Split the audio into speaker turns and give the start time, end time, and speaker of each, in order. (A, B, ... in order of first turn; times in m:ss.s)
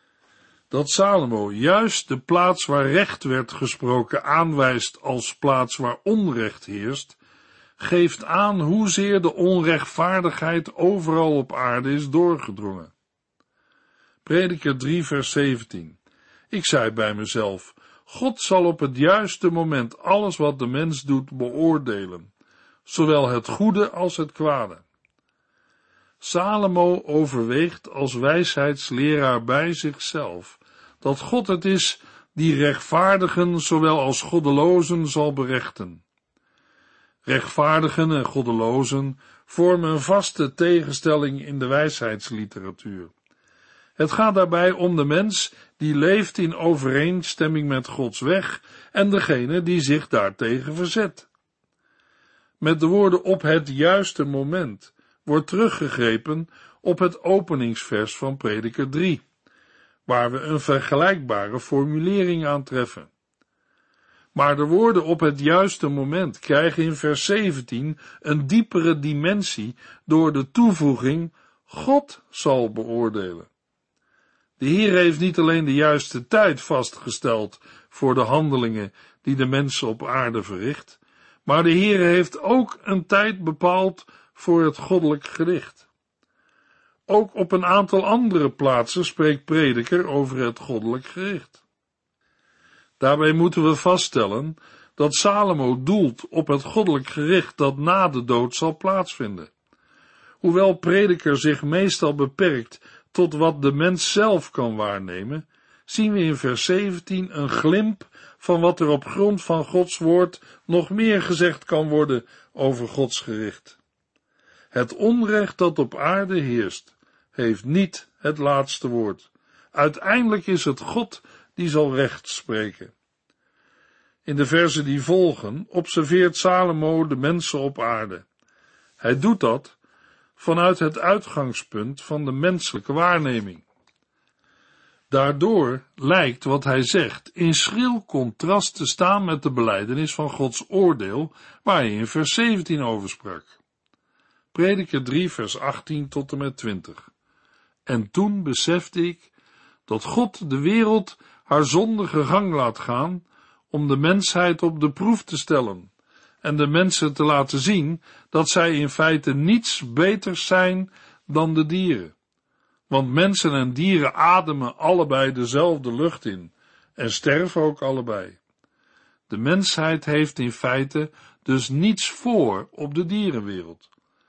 0:00.7-0:07.2 A
0:07.8-0:12.9 A
0:14.2-0:16.0 A
0:16.5-0:22.3 A
0:22.8-0:24.8 A
0:26.2-0:36.0 A
0:37.2-0:43.1 A
0:44.0-0:51.3 A
0:52.6-0:59.2 A
1:00.0-1:03.1 A
1:04.3-1:13.5 A
1:14.6-1:25.8 A
1:27.1-1:31.6 A
1:33.0-1:39.5 A
1:40.4-1:53.8 A
1:54.7-2:02.9 A
2:04.2-2:08.2 A
2:09.0-2:09.7 A
2:10.4-2:13.6 A
2:15.1-2:23.5 A
2:24.5-2:27.1 A
2:27.8-2:29.3 A
2:29.9-2:35.9 A
2:36.4-2:42.1 A
2:42.9-2:48.4 A
2:49.3-2:53.9 A